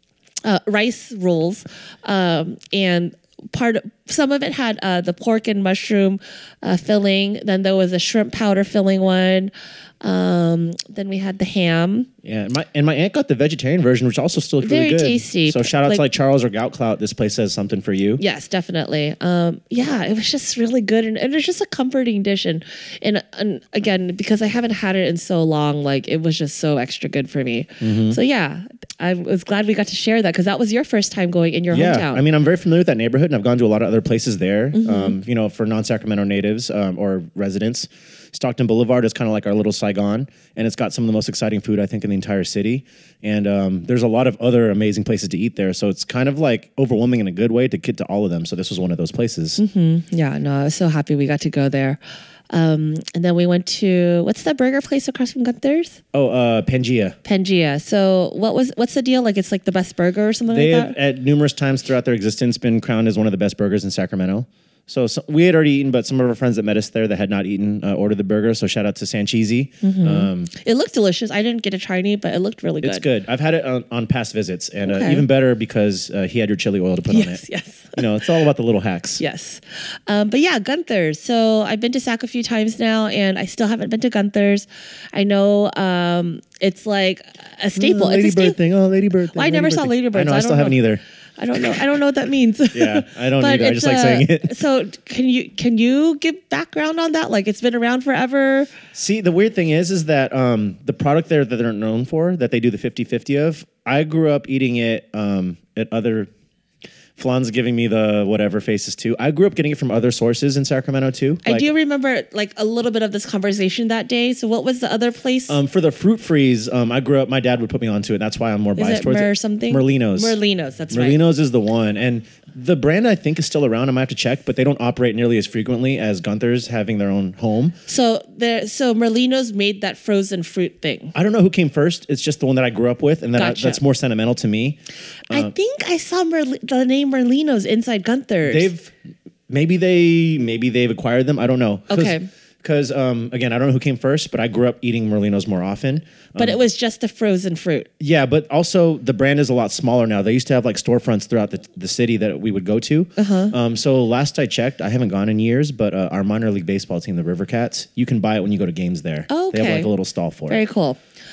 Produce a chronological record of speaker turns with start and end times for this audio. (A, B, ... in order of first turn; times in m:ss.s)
0:00.4-0:12.1 A
0:12.2-0:18.2 B
0:14.6-0:16.0 A
0:18.2-0:32.2 A
0:27.8-0:28.2 B
0:31.7-0:49.6 B
0:34.7-0:35.2 A
0:49.6-0:56.0 A
0:56.1-0:57.2 B
0:57.2-1:00.9 A
1:00.5-1:10.5 B
1:09.8-1:13.0 A
1:12.8-1:17.4 B
1:14.8-1:15.2 A
1:17.1-1:18.0 A
1:17.9-1:19.2 B
1:19.2-1:28.6 A
1:27.8-1:31.0 B
1:29.3-1:30.8 A
1:31.4-1:38.7 A
1:32.7-1:34.6 B
1:38.9-1:46.3 B
1:47.2-1:51.7 B
1:51.4-1:55.6 A
1:55.5-2:00.4 B
1:58.8-2:01.2 A
2:00.9-2:07.8 B
2:07.9-2:11.1 A
2:11.1-2:14.8 B
2:13.4-2:13.8 A
2:15.3-2:18.7 A
2:18.4-2:18.9 B
2:19.5-2:26.6 B
2:21.9-2:22.3 A
2:26.4-2:27.9 A
2:28.0-2:40.6 B
2:33.2-2:33.5 A
2:39.3-2:39.9 A
2:40.5-2:41.0 A